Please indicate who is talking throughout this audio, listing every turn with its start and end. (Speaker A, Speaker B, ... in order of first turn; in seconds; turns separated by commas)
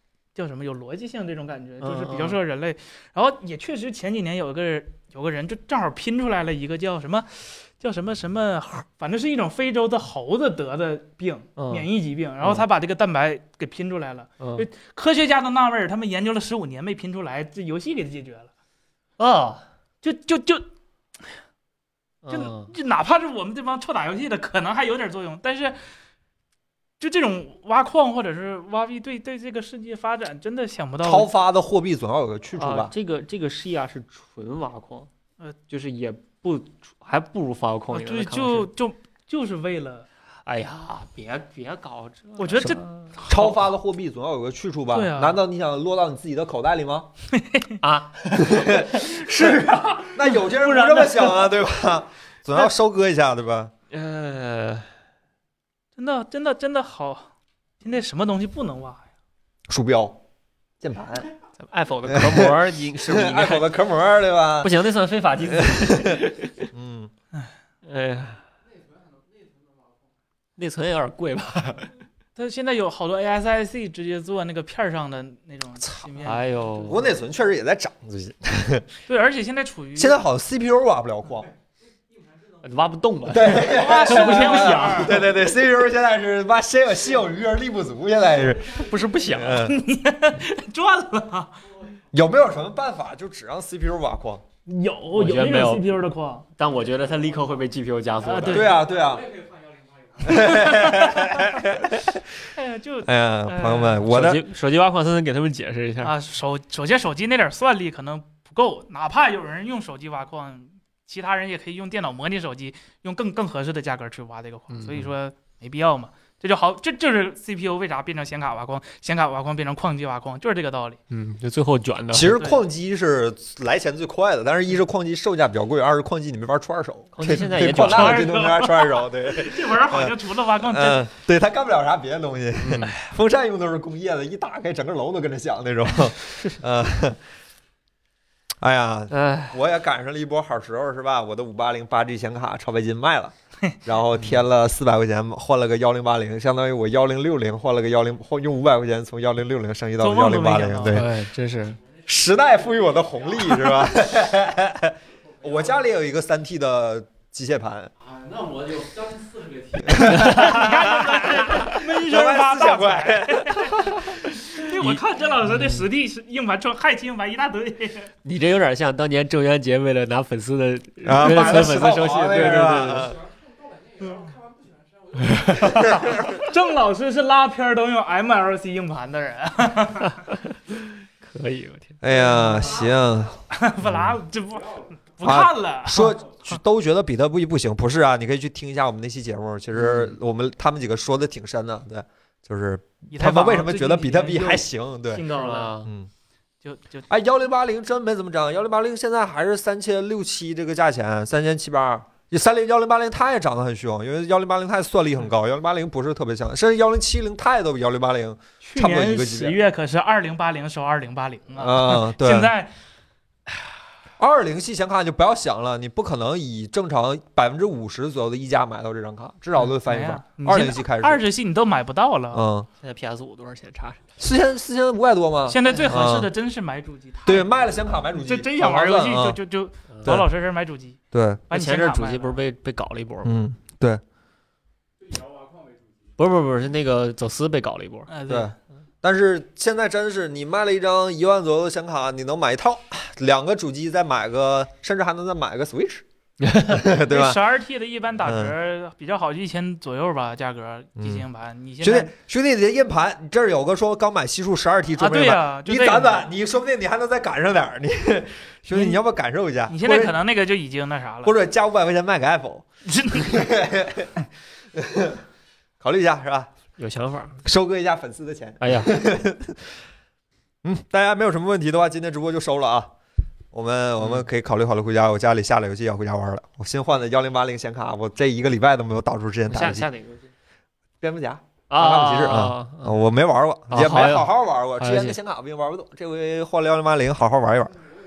Speaker A: 0.3-18.5, Speaker B: 1.8-2.4, Speaker B: 11.6-11.9, Speaker B: 12.4-12.7, Speaker B: 14.4-14.7, Speaker B: 19.2-19.7, Speaker A: 20.0-20.6, Speaker B: 22.2-22.7, Speaker A: 22.3-25.8, Speaker A: 27.0-31.3, Speaker C: 31.0-32.9, Speaker B: 32.6-35.1, Speaker B: 35.7-38.7, Speaker A: 37.9-40.1, Speaker B: 40.5-43.2, Speaker A: 42.4-43.6, Speaker C: 43.3-47.1, Speaker A: 44.9-45.4, Speaker A: 47.3-47.8, Speaker B: 47.8-51.1, Speaker C: 48.4-53.7, Speaker A: 50.2-51.5, Speaker B: 53.9-54.9, Speaker A: 56.0-57.3, Speaker A: 57.8-59.1, Speaker C: 59.7-60.2, Speaker C: 60.8-61.3, Speaker B: 61.6-63.8, Speaker C: 62.1-64.8, Speaker B: 64.6-66.7, Speaker C: 65.4-67.1, Speaker B: 67.8-68.5, Speaker D: 68.6-70.1, Speaker B: 70.6-71.9, Speaker A: 72.3-77.0, Speaker B: 76.2-77.0, Speaker C: 76.9-78.9, Speaker A: 79.1-80.2, Speaker C: 80.0-81.5, Speaker B: 82.6-85.1, Speaker C: 83.3-89.8, Speaker A: 83.5-85.3, Speaker B: 88.7-89.7, Speaker A: 89.6-91.6, Speaker C: 92.1-94.4, Speaker A: 94.7-96.5, Speaker B: 95.1-95.9, Speaker B: 96.6-98.8, Speaker A: 98.2-98.7, Speaker C: 98.5-99.3, Speaker D: 98.9-100.4, Speaker C: 100.2-102.5, Speaker A: 100.3-101.5, Speaker A: 102.5-104.1, Speaker C: 103.0-104.4, Speaker B: 104.1-106.1, Speaker A: 106.0-121.0, Speaker B: 114.7-115.1, Speaker B: 121.1-122.4, Speaker C: 122.1-137.2, Speaker B: 127.2-128.3, Speaker A: 127.7-131.1, Speaker B: 132.6-132.9, Speaker B: 136.3-136.6, Speaker C: 138.6-143.3, Speaker B: 139.1-139.6, Speaker C: 143.8-151.1, Speaker A: 150.0-151.1, Speaker B: 150.9-151.8, Speaker D: 152.0-153.6, Speaker C: 152.1-157.9, Speaker A: 153.5-153.8, Speaker D: 155.4-155.8, Speaker D: 158.0-160.1, Speaker C: 159.8-163.9, Speaker B: 160.0-161.7, Speaker A: 160.1-168.1, Speaker B: 163.8-165.9, Speaker B: 168.2-173.2, Speaker C: 171.0-173.2, Speaker A: 171.1-172.0, Speaker D: 172.5-175.8, Speaker B: 175.2-176.5, Speaker A: 175.8-180.2, Speaker B: 180.0-182.0, Speaker C: 182.0-184.2, Speaker A: 182.1-182.9, Speaker A: 183.5-186.6, Speaker C: 185.2-195.3, Speaker B: 189.7-190.2, Speaker A: 193.1-195.8, Speaker B: 195.2-195.9, Speaker C: 195.8-196.1, Speaker A: 196.6-197.1, Speaker C: 197.1-209.6, Speaker A: 208.6-212.7, Speaker C: 211.6-212.5, Speaker C: 214.2-221.2, Speaker A: 219.7-222.4, Speaker C: 222.3-222.7, Speaker B: 222.8-224.0, Speaker C: 224.2-226.3, Speaker A: 225.5-231.0, Speaker B: 225.7-226.0, Speaker C: 227.2-229.4, Speaker B: 229.9-230.2, Speaker C: 231.1-231.4, Speaker A: 231.5-232.4, Speaker B: 231.5-233.4, Speaker C: 233.2-234.0, Speaker D: 235.1-235.8, Speaker B: 236.2-238.1, Speaker A: 238.1-238.5, Speaker C: 238.3-246.1, Speaker B: 246.4-246.8, Speaker C: 246.7-247.4, Speaker A: 246.8-252.1, Speaker C: 248.2-248.5, Speaker C: 251.0-251.3, Speaker C: 251.8-260.2, Speaker A: 255.0-256.3, Speaker A: 258.7-259.0, Speaker A: 259.7-261.4, Speaker C: 261.2-264.1, Speaker A: 262.9-263.5, Speaker C: 264.7-265.2, Speaker C: 265.8-266.5, Speaker B: 266.8-267.4, Speaker C: 267.4-269.8, Speaker B: 268.6-268.9, Speaker C: 270.6-272.9, Speaker C: 273.5-279.9, Speaker B: 274.0-274.3, Speaker B: 279.5-280.3, Speaker C: 281.0-287.8, Speaker B: 281.7-283.0, Speaker B: 283.7-285.2